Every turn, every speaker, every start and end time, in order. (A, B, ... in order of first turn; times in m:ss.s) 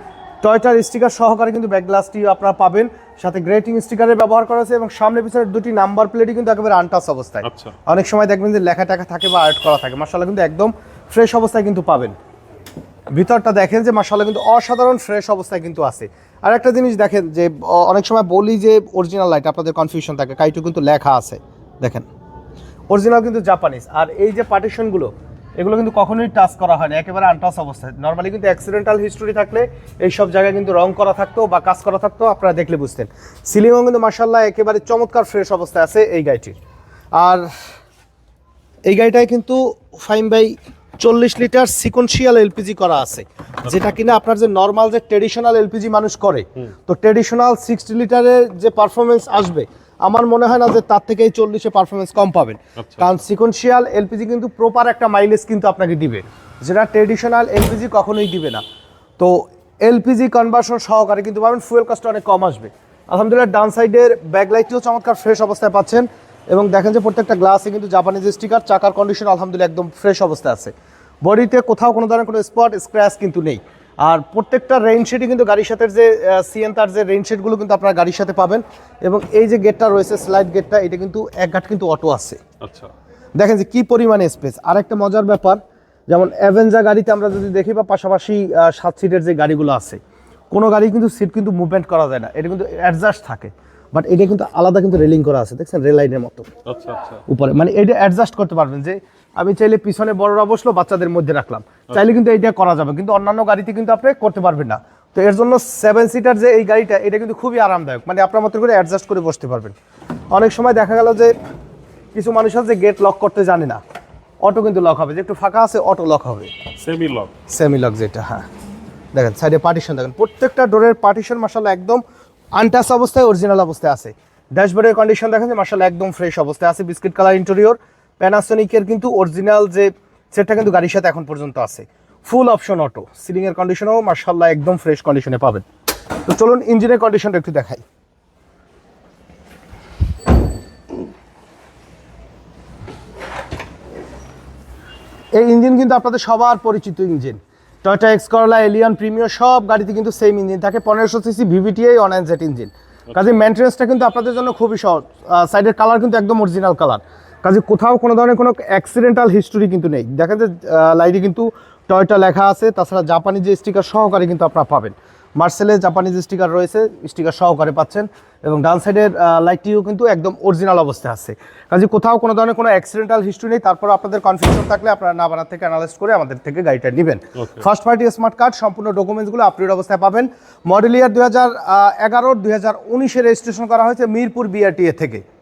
0:00.4-0:12.2 A
0:07.4-0:07.8 B
0:13.1-0:22.1 A
0:22.9-0:36.6 A
0:37.2-0:37.5 A
0:38.9-0:58.6 A
0:52.8-0:53.2 B
0:59.2-1:22.4 A
1:22.6-1:22.9 B
1:23.4-1:30.0 A
1:30.5-1:36.5 A
1:36.7-1:37.2 B
1:37.3-1:49.8 A
1:50.3-1:51.4 A
1:52.1-1:53.8 A
1:54.4-1:56.5 A
1:56.8-1:57.3 B
1:57.5-1:58.4 A
1:59.1-2:02.0 A
2:02.6-2:15.6 A
2:16.3-2:17.8 A
2:25.3-3:05.2 A